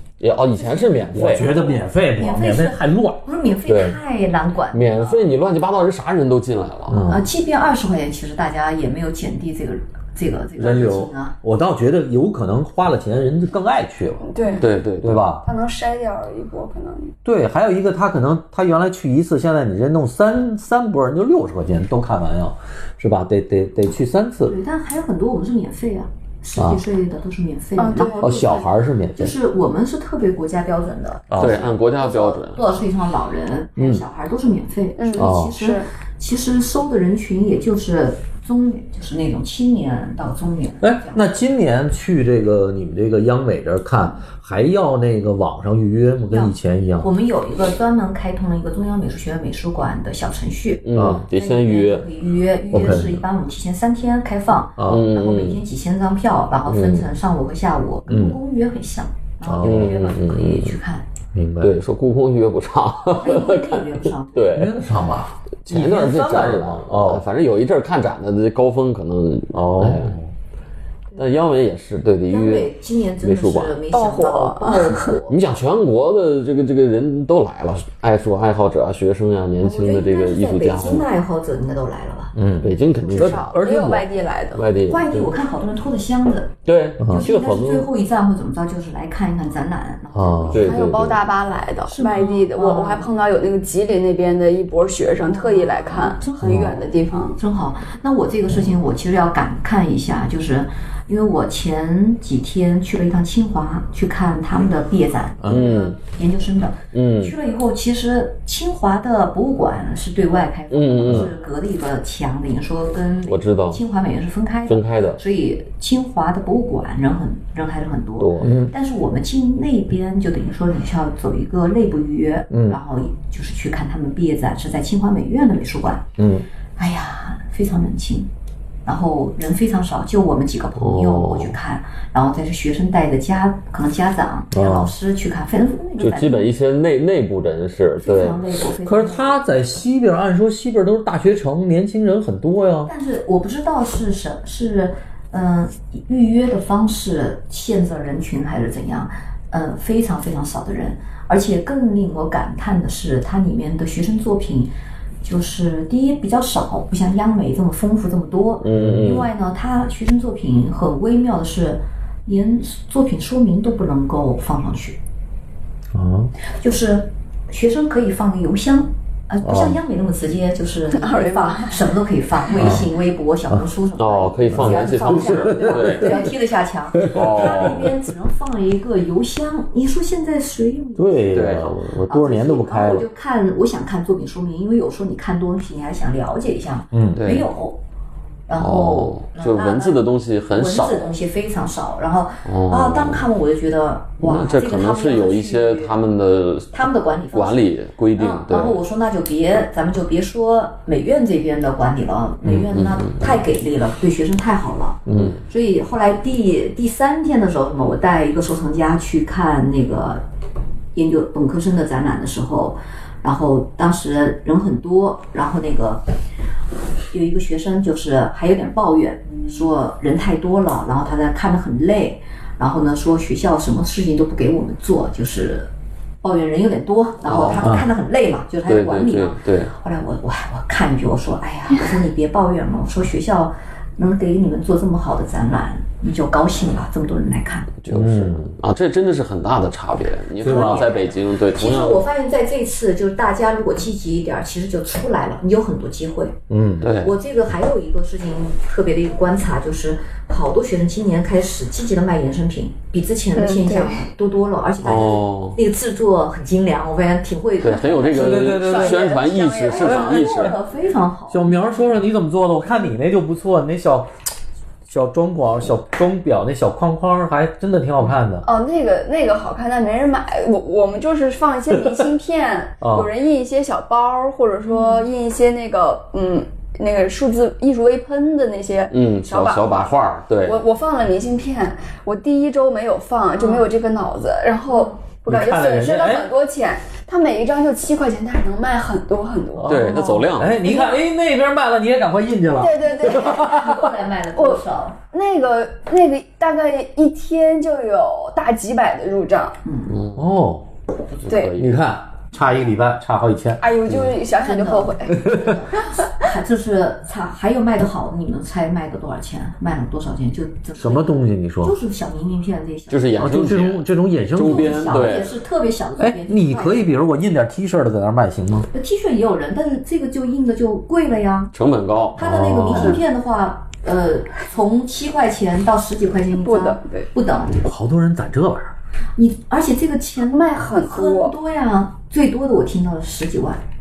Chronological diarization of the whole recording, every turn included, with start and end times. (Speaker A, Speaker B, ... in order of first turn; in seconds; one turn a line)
Speaker A: 0.2-1.5
Speaker B: 0.5-5.2
Speaker C: 1.1-3.2
Speaker A: 3.6-4.0
Speaker A: 4.7-7.1
Speaker C: 6.9-7.2
Speaker B: 7.0-11.3
Speaker C: 10.6-14.3
Speaker D: 14.2-14.7
Speaker A: 14.6-15.3
Speaker C: 15.0-15.5
Speaker D: 15.4-17.1
Speaker C: 17.2-24.6
Speaker B: 24.4-41.3
Speaker C: 26.6-26.8
Speaker D: 27.8-28.5
Speaker C: 28.2-29.4
Speaker C: 31.3-31.7
Speaker A: 31.4-32.6
Speaker C: 33.8-34.0
Speaker D: 35.0-35.9
Speaker C: 35.1-35.5
Speaker C: 40.8-47.1
Speaker B: 46.3-61.0
Speaker A: 50.8-52.1
Speaker C: 50.9-51.2
Speaker C: 52.7-53.2
Speaker C: 54.8-55.1
Speaker A: 54.9-55.6
Speaker A: 56.7-57.1
Speaker C: 58.1-58.4
Speaker C: 59.4-60.0
Speaker A: 59.6-60.8
Speaker C: 61.3-61.8
Speaker A: 61.6-64.7
Speaker B: 63.1-64.7
Speaker C: 64.5-67.2
Speaker A: 65.6-70.2
Speaker C: 69.5-70.3
Speaker A: 71.2-73.8
Speaker B: 72.3-75.4
Speaker D: 73.9-75.2
Speaker A: 75.3-81.0
Speaker B: 79.6-82.3
Speaker C: 82.3-84.1
Speaker A: 82.6-83.5
Speaker D: 83.1-84.7
Speaker A: 84.5-85.2
Speaker B: 84.9-86.5
Speaker A: 86.7-87.9
Speaker B: 87.1-91.0
Speaker C: 90.1-90.7
Speaker A: 90.5-91.2
Speaker D: 90.6-97.4
Speaker B: 91.9-93.1
Speaker B: 95.2-96.8
Speaker C: 96.4-96.7
Speaker B: 97.3-126.1
Speaker C: 105.4-105.8
Speaker A: 105.4-106.0
Speaker A: 106.9-107.3
Speaker A: 110.7-111.3
Speaker C: 111.0-111.3
Speaker A: 113.3-113.8
Speaker A: 114.7-115.2
Speaker A: 118.2-118.5
Speaker C: 118.4-118.7
Speaker C: 122.5-122.8
Speaker C: 126.2-126.5
Speaker B: 126.8-128.3
Speaker B: 128.8-136.5
Speaker A: 130.8-131.6
Speaker C: 134.5-134.9
Speaker A: 136.0-138.4
Speaker B: 138.0-139.4
Speaker C: 138.8-142.9
Speaker B: 142.8-165.0
Speaker A: 158.6-159.3
Speaker C: 158.8-159.2
Speaker C: 165.9-166.3
Speaker B: 166.4-187.8
Speaker C: 169.4-169.8
Speaker D: 170.9-171.8
Speaker C: 172.6-172.9
Speaker A: 174.0-176.3
Speaker C: 174.5-176.0
Speaker D: 175.5-176.2
Speaker C: 177.0-177.7
Speaker A: 177.0-177.9
Speaker C: 180.9-183.1
Speaker A: 181.3-181.7
Speaker C: 186.9-187.2
Speaker A: 187.2-187.5
Speaker B: 188.5-195.9
Speaker A: 188.6-191.1
Speaker A: 192.4-193.2
Speaker A: 194.2-198.8
Speaker B: 196.7-210.2
Speaker A: 202.4-203.2
Speaker C: 205.1-205.3
Speaker A: 205.1-205.4
Speaker B: 210.9-216.1
Speaker B: 217.1-225.7
Speaker B: 226.2-237.7
Speaker A: 227.2-227.7
Speaker A: 228.6-229.7
Speaker A: 237.8-242.0
Speaker C: 237.9-238.5
Speaker C: 240.4-240.9
Speaker B: 240.4-246.4
Speaker C: 246.5-246.9
Speaker A: 246.8-247.2
Speaker B: 247.0-258.6
Speaker D: 253.3-254.0
Speaker A: 254.8-255.6
Speaker A: 257.6-260.5
Speaker D: 258.1-260.5
Speaker C: 258.1-259.1
Speaker B: 259.7-261.6
Speaker C: 261.3-264.1
Speaker C: 264.9-268.4
Speaker D: 268.4-279.8
Speaker C: 272.8-273.1
Speaker B: 274.7-275.1
Speaker A: 278.9-280.6
Speaker D: 280.4-291.0
Speaker B: 283.4-283.7
Speaker C: 285.3-286.3
Speaker C: 289.6-293.9
Speaker A: 289.6-290.6
Speaker D: 292.6-293.8
Speaker B: 293.0-295.0
Speaker D: 294.4-299.6
Speaker B: 299.6-300.0
Speaker A: 299.9-300.3
Speaker C: 300.1-300.6
Speaker A: 301.2-301.8
Speaker D: 301.3-301.5
Speaker C: 301.5-303.7
Speaker D: 303.6-305.8
Speaker A: 303.9-304.2
Speaker B: 304.4-313.7
Speaker C: 305.2-305.5
Speaker C: 310.8-311.8
Speaker A: 312.9-315.4
Speaker C: 313.2-315.1
Speaker B: 314.4-316.9
Speaker C: 316.0-318.7
Speaker B: 318.7-321.5
Speaker A: 321.5-323.0
Speaker B: 322.1-327.6
Speaker C: 322.2-323.0
Speaker D: 326.3-327.1
Speaker C: 327.6-328.7
Speaker B: 329.2-333.6
Speaker D: 330.2-331.3